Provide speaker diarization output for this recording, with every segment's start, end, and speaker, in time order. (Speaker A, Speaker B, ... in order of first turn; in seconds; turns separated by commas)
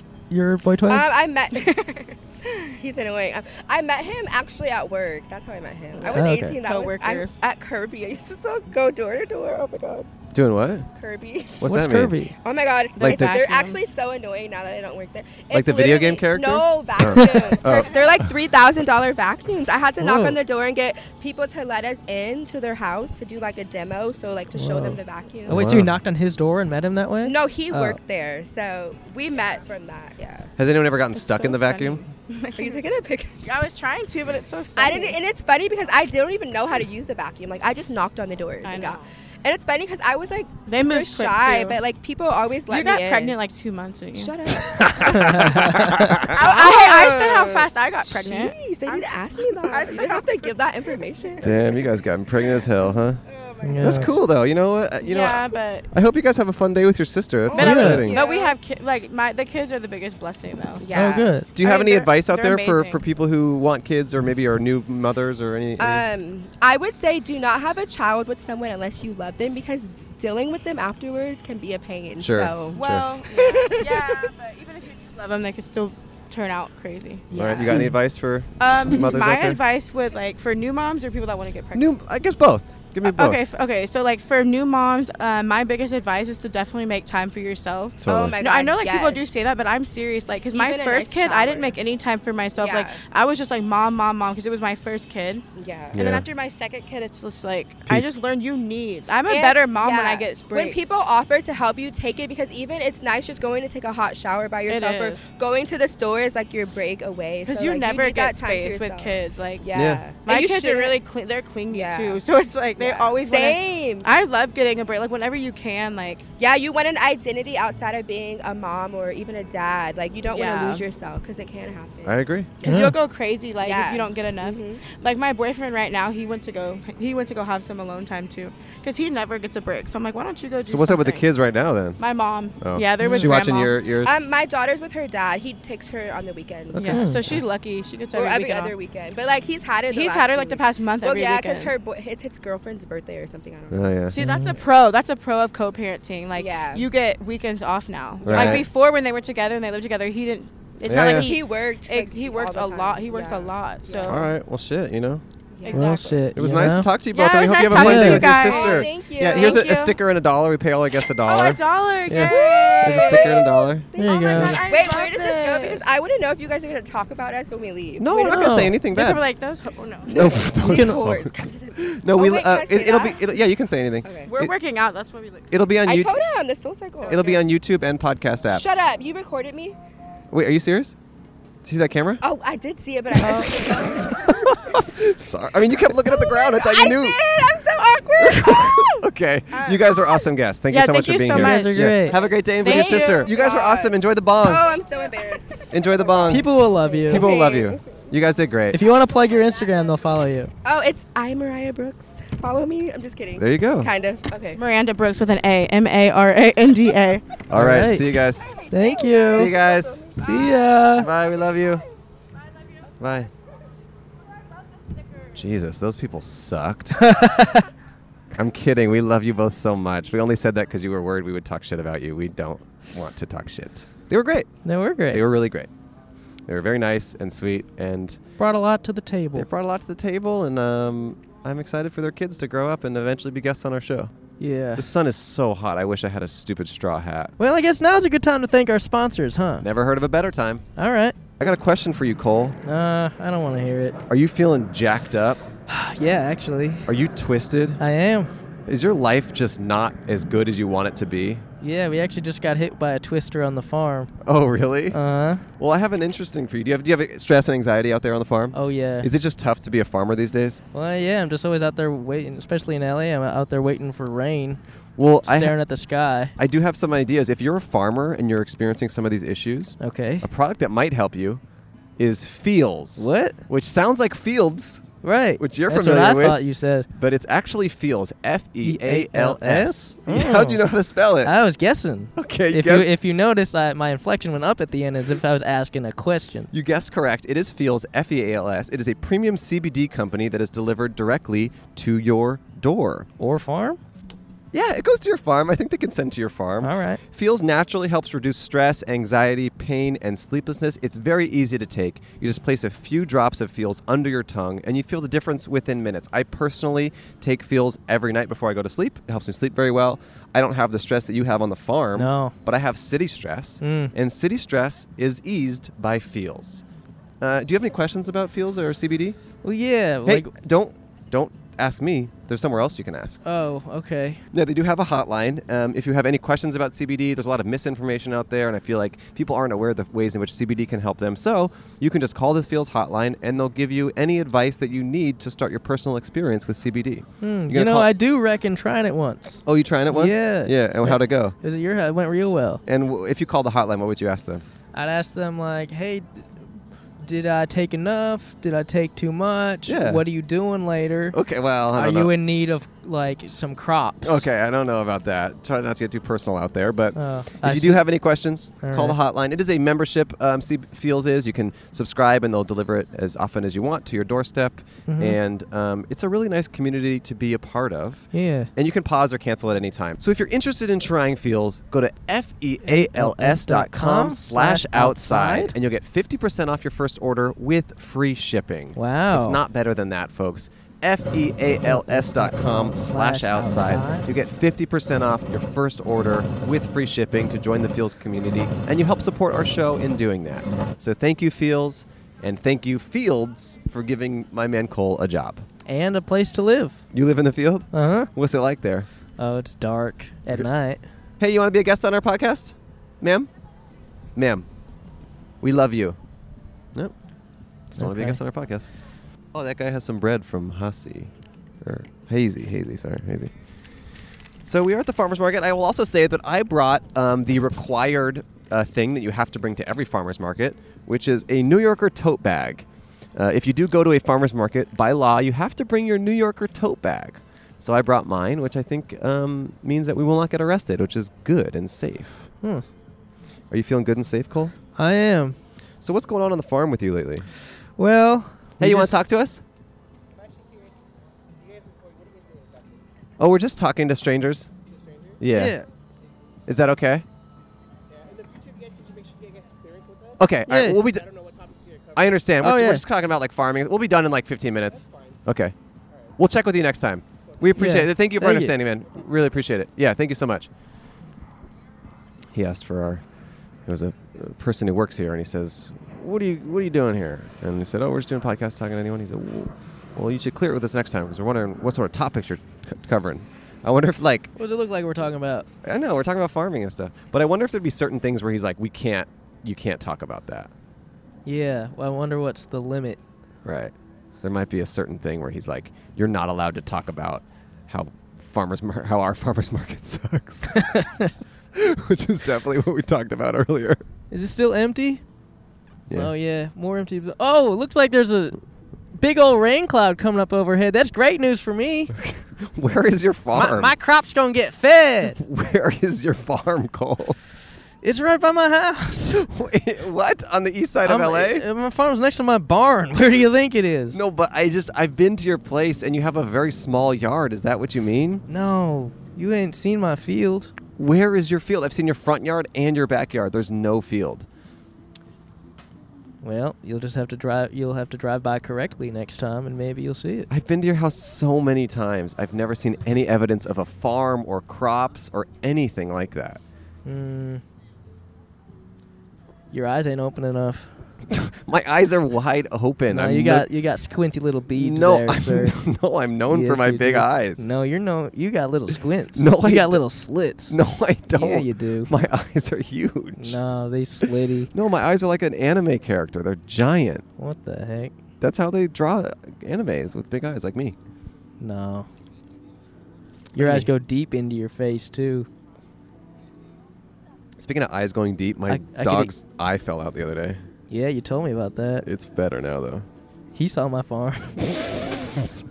Speaker A: 0.3-1.1, Speaker B: 0.9-1.7, Speaker C: 1.5-2.7, Speaker B: 2.8-10.1, Speaker C: 5.9-7.4, Speaker A: 6.1-6.6, Speaker D: 10.3-10.9, Speaker B: 10.9-11.7, Speaker D: 11.6-12.2, Speaker A: 11.6-12.3, Speaker B: 12.3-25.8, Speaker C: 12.9-13.8, Speaker D: 13.0-13.4, Speaker D: 15.5-18.3, Speaker C: 17.5-18.1, Speaker A: 20.0-20.4, Speaker A: 24.6-28.0, Speaker D: 25.5-25.9, Speaker B: 27.2-30.5, Speaker D: 30.6-32.0, Speaker C: 31.1-32.8, Speaker B: 32.5-33.4, Speaker C: 33.4-35.2, Speaker B: 34.8-43.4, Speaker C: 38.6-39.0, Speaker C: 40.7-41.8, Speaker C: 42.7-44.4, Speaker B: 44.1-45.6, Speaker A: 45.1-46.2, Speaker B: 46.3-51.7, Speaker C: 46.3-50.5, Speaker C: 51.2-51.7, Speaker D: 51.4-53.2, Speaker C: 53.3-54.0, Speaker A: 53.6-54.1, Speaker D: 53.8-58.2, Speaker C: 55.0-55.9, Speaker C: 57.5-63.0, Speaker B: 57.5-58.5, Speaker A: 57.6-58.0, Speaker B: 60.8-61.4, Speaker A: 60.9-61.5, Speaker D: 61.5-66.0, Speaker B: 65.8-74.3, Speaker D: 72.2-73.1, Speaker C: 72.7-77.7, Speaker B: 77.3-77.9, Speaker D: 77.3-79.6, Speaker C: 78.6-81.9, Speaker D: 81.7-83.4, Speaker C: 83.0-95.4, Speaker D: 88.0-88.4, Speaker B: 88.0-89.3, Speaker B: 90.5-91.8, Speaker B: 92.6-93.0, Speaker B: 95.5-96.0, Speaker D: 95.9-96.2, Speaker C: 96.0-100.9, Speaker D: 97.9-98.2, Speaker B: 99.3-111.0, Speaker C: 104.7-105.2, Speaker C: 107.4-116.2, Speaker D: 109.7-110.0, Speaker B: 111.7-112.2, Speaker B: 112.8-114.1, Speaker B: 116.4-122.2, Speaker C: 120.3-120.8, Speaker D: 122.0-122.5, Speaker C: 122.6-131.3, Speaker A: 122.6-123.0, Speaker B: 123.6-124.8, Speaker D: 130.7-132.0, Speaker C: 132.0-133.8, Speaker D: 132.6-134.1, Speaker A: 133.0-133.3, Speaker B: 134.0-137.1, Speaker C: 136.7-138.8, Speaker A: 136.8-137.4, Speaker B: 138.1-144.0, Speaker C: 139.9-141.7, Speaker D: 143.7-144.1, Speaker C: 144.1-154.3, Speaker A: 144.2-144.6, Speaker B: 146.3-146.9, Speaker B: 148.2-148.6, Speaker D: 148.2-148.7, Speaker B: 150.8-154.3, Speaker D: 150.9-151.3, Speaker D: 154.1-155.2, Speaker B: 155.5-155.9, Speaker C: 155.6-156.3, Speaker A: 155.7-156.9, Speaker D: 156.3-161.6, Speaker C: 157.1-160.0, Speaker A: 157.7-158.3, Speaker B: 158.3-159.6, Speaker C: 161.2-163.4, Speaker B: 162.1-168.5, Speaker D: 162.8-163.9, Speaker A: 164.0-164.6, Speaker C: 164.1-166.0, Speaker D: 168.0-169.2, Speaker C: 168.2-170.5, Speaker B: 170.1-173.4, Speaker D: 170.1-174.5, Speaker A: 170.6-171.0, Speaker B: 174.0-174.3, Speaker C: 174.3-175.5, Speaker D: 175.5-176.2, Speaker B: 175.8-177.4, Speaker C: 177.0-177.4, Speaker D: 177.1-178.8, Speaker B: 178.5-179.8, Speaker D: 180.3-180.9, Speaker D: 181.6-182.2, Speaker B: 182.2-184.7, Speaker D: 183.9-187.2, Speaker B: 186.0-189.0, Speaker D: 188.2-194.7, Speaker C: 189.5-190.2, Speaker C: 190.7-193.4, Speaker A: 191.3-192.2, Speaker B: 192.1-198.0, Speaker D: 195.7-196.5, Speaker A: 196.3-197.3, Speaker D: 197.1-198.8, Speaker A: 198.7-200.5, Speaker B: 200.6-204.6, Speaker D: 203.3-203.9, Speaker C: 204.5-207.2, Speaker D: 207.5-208.4, Speaker A: 207.5-208.1, Speaker B: 208.4-210.6, Speaker A: 208.7-209.5, Speaker D: 209.3-210.1, Speaker A: 210.2-211.1, Speaker D: 210.9-211.8, Speaker D: 213.0-213.3, Speaker D: 215.3-217.2, Speaker A: 217.0-217.7, Speaker D: 218.3-224.5, Speaker A: 224.6-225.2, Speaker D: 225.1-225.7, Speaker D: 226.5-228.2, Speaker A: 228.4-229.5, Speaker D: 229.3-234.1, Speaker A: 234.4-234.9, Speaker D: 234.7-237.3, Speaker A: 237.4-239.7, Speaker D: 239.6-240.7, Speaker A: 240.8-241.2, Speaker D: 241.4-242.6, Speaker A: 242.6-244.0, Speaker D: 244.1-245.4, Speaker A: 245.7-246.9, Speaker D: 246.8-247.8, Speaker A: 247.8-248.3, Speaker D: 248.7-251.4, Speaker A: 251.6-254.1, Speaker D: 254.2-255.0, Speaker A: 254.9-255.4, Speaker D: 255.6-260.6, Speaker A: 258.5-259.1, Speaker A: 260.7-264.6, Speaker D: 265.0-265.6, Speaker A: 265.2-266.3, Speaker D: 266.4-271.4, Speaker A: 269.8-270.3, Speaker D: 272.0-274.8, Speaker A: 273.0-273.4, Speaker A: 275.0-276.9, Speaker D: 275.4-281.4, Speaker A: 278.6-280.6, Speaker A: 281.2-286.5, Speaker D: 282.1-282.9, Speaker D: 286.5-293.1, Speaker A: 293.2-293.8, Speaker D: 294.5-316.6, Speaker A: 296.6-297.0, Speaker A: 311.9-312.3, Speaker A: 313.6-313.9, Speaker D: 317.2-319.2, Speaker A: 319.4-320.3, Speaker D: 320.0-323.2, Speaker A: 323.2-324.2, Speaker D: 324.3-337.9, Speaker A: 337.2-342.6, Speaker D: 339.4-341.3, Speaker D: 342.6-344.4, Speaker A: 344.7-346.2, Speaker A: 347.0-351.2, Speaker D: 349.6-350.0, Speaker D: 351.1-352.1, Speaker A: 351.7-354.2, Speaker D: 354.0-395.4, Speaker A: 356.9-357.9, Speaker A: 358.6-359.0, Speaker A: 364.9-365.2, Speaker A: 368.1-368.5, Speaker A: 372.6-375.5, Speaker A: 378.8-379.4, Speaker A: 381.6-384.1, Speaker A: 395.6-396.8, Speaker D: 396.9-398.9, Speaker A: 397.7-398.1, Speaker A: 399.2-400.8, Speaker D: 401.2-403.3, Speaker D: 404.1-404.4, Speaker D: 405.4-406.0, Speaker D: 407.7-408.7, Speaker A: 407.8-408.2, Speaker D: 409.3-413.3, Speaker D: 414.4-432.3, Speaker D: 433.5-434.5, Speaker A: 434.8-435.4, Speaker D: 435.8-437.3, Speaker A: 437.8-439.0, Speaker D: 438.6-439.4, Speaker D: 443.2-444.5, Speaker D: 445.2-445.6, Speaker A: 445.3-445.6, Speaker D: 446.5-447.0, Speaker D: 450.2-451.2, Speaker A: 450.5-450.8, Speaker D: 451.9-455.5, Speaker A: 452.4-452.8, Speaker D: 456.2-460.5, Speaker A: 457.6-458.6, Speaker D: 462.3-463.0, Speaker D: 463.6-474.3, Speaker A: 474.4-475.5, Speaker D: 475.6-480.5, Speaker A: 481.2-483.0, Speaker D: 483.4-490.9, Speaker A: 490.6-491.1, Speaker D: 491.5-493.8, Speaker A: 494.1-495.0, Speaker A: 495.9-498.4, Speaker A: 498.9-501.9, Speaker D: 501.9-503.7, Speaker A: 503.3-505.2, Speaker D: 505.1-507.2, Speaker A: 507.8-509.2, Speaker D: 509.0-511.4, Speaker A: 510.8-514.0, Speaker D: 513.9-518.2, Speaker A: 518.3-520.5, Speaker D: 520.8-524.3, Speaker A: 526.2-530.3, Speaker D: 530.3-536.4, Speaker A: 536.8-537.4, Speaker A: 539.5-540.7, Speaker D: 541.1-543.5, Speaker A: 542.9-545.6, Speaker D: 544.5-547.5, Speaker A: 546.3-550.5, Speaker D: 549.1-549.9, Speaker D: 550.5-553.4, Speaker A: 551.1-551.9, Speaker A: 553.2-554.5, Speaker D: 554.0-557.0, Speaker A: 557.2-557.9, Speaker D: 558.2-560.8, Speaker A: 561.4-561.9, Speaker D: 563.3-563.7, Speaker A: 563.3-565.3, Speaker D: 567.4-570.4, Speaker A: 568.5-569.1, Speaker A: 570.7-571.9, Speaker D: 571.8-572.9, Speaker A: 573.3-574.8